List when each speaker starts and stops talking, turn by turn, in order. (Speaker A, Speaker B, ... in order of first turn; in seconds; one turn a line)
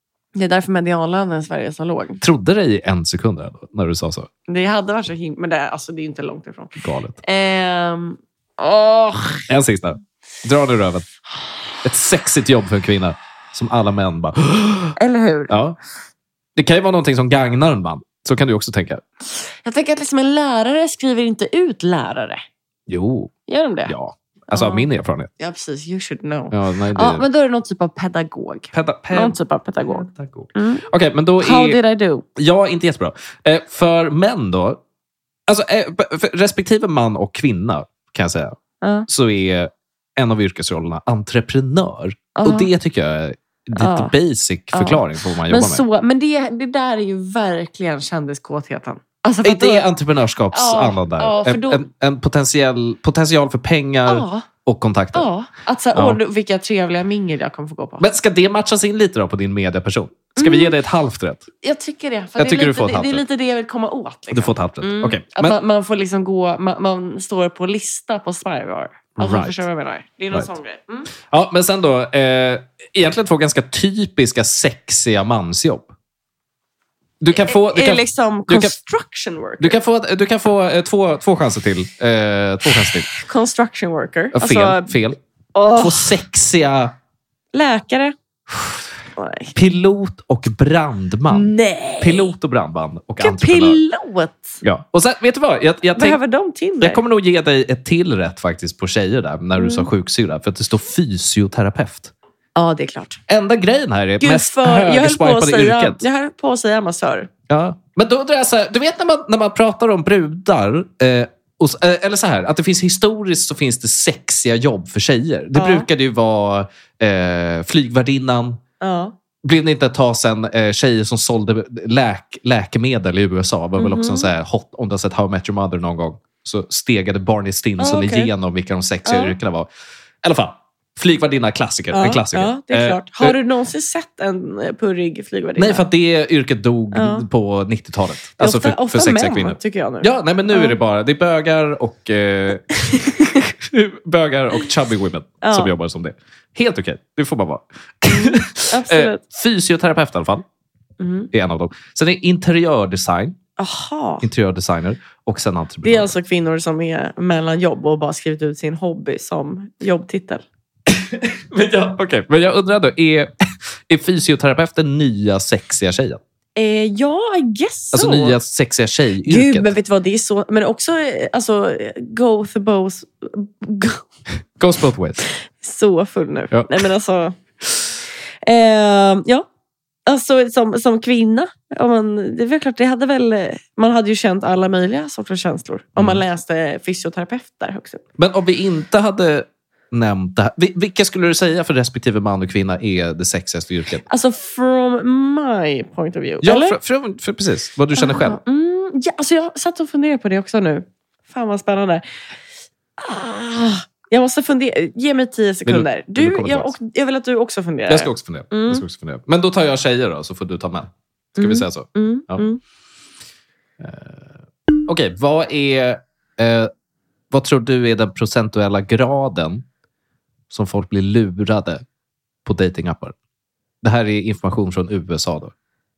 Speaker A: 0.3-2.2
Speaker B: 2.2-4.3
Speaker A: 4.5-9.4
Speaker B: 6.8-7.2
Speaker B: 9.5-11.1
Speaker B: 11.8-14.9
Speaker A: 15.0-15.6
Speaker B: 15.5-15.8
Speaker B: 16.6-19.0
Speaker A: 19.3-22.4
Speaker B: 22.9-23.3
Speaker A: 23.5-23.9
Speaker B: 23.9-25.3
Speaker A: 24.5-24.9
Speaker A: 25.4-30.8
Speaker B: 26.5-27.2
Speaker B: 28.7-31.8
Speaker A: 31.4-32.2
Speaker B: 32.4-34.8
Speaker B: 35.5-45.8
Speaker A: 38.8-39.1
Speaker A: 42.3-42.7
Speaker A: 43.8-44.1
Speaker A: 44.7-49.9
Speaker B: 49.4-55.3
Speaker A: 50.5-51.8
Speaker A: 54.0-54.5
Speaker A: 55.1-58.0
Speaker B: 55.9-56.2
Speaker B: 58.0-61.5
Speaker A: 60.4-60.7
Speaker A: 61.6-71.1
Speaker B: 62.4-63.2
Speaker B: 64.3-65.6
Speaker B: 69.2-69.6
Speaker B: 71.3-75.9
Speaker B: 77.2-78.7
Speaker A: 77.4-79.8
Speaker B: 79.6-83.1
Speaker A: 82.7-84.9
Speaker B: 84.3-85.2
Speaker A: 85.5-86.2
Speaker B: 85.7-86.9
Speaker A: 87.5-88.1
Speaker A: 89.1-89.5
Speaker B: 89.5-93.8
Speaker A: 91.3-92.3
Speaker A: 93.2-94.6
Speaker B: 94.6-96.2
Speaker A: 96.0-97.0
Speaker B: 96.8-102.1
Speaker A: 99.5-99.9
Speaker A: 102.5-103.2
Speaker B: 103.3-106.0
Speaker A: 104.2-107.3
Speaker B: 107.5-118.6
Speaker A: 115.5-115.9
Speaker A: 118.8-119.1
Speaker B: 119.4-129.7
Speaker A: 123.8-124.3
Speaker A: 127.8-128.3
Speaker A: 129.1-129.3
Speaker B: 130.2-133.4
Speaker A: 131.9-135.8
Speaker B: 135.6-150.4
Speaker A: 136.9-137.2
Speaker A: 138.4-140.8
Speaker A: 142.7-143.4
Speaker A: 145.4-145.7
Speaker A: 148.1-149.2
Speaker A: 151.0-151.3
Speaker B: 151.3-153.4
Speaker A: 153.6-154.2
Speaker B: 154.2-156.1
Speaker A: 155.8-160.4
Speaker B: 160.9-163.3
Speaker B: 163.9-166.2
Speaker A: 166.6-168.4
Speaker B: 167.9-169.7
Speaker A: 169.2-174.0
Speaker B: 174.6-175.2
Speaker A: 175.5-177.3
Speaker B: 176.5-176.8
Speaker A: 178.4-179.4
Speaker A: 180.1-188.0
Speaker B: 188.2-194.0
Speaker A: 194.1-196.8
Speaker B: 196.4-198.4
Speaker A: 197.9-202.0
Speaker A: 203.0-208.8
Speaker B: 205.7-206.7
Speaker B: 207.9-212.4
Speaker A: 211.4-212.6
Speaker B: 213.8-214.3
Speaker B: 214.9-216.7
Speaker B: 217.3-219.6
Speaker B: 220.5-221.8
Speaker B: 222.4-223.1
Speaker B: 223.8-225.5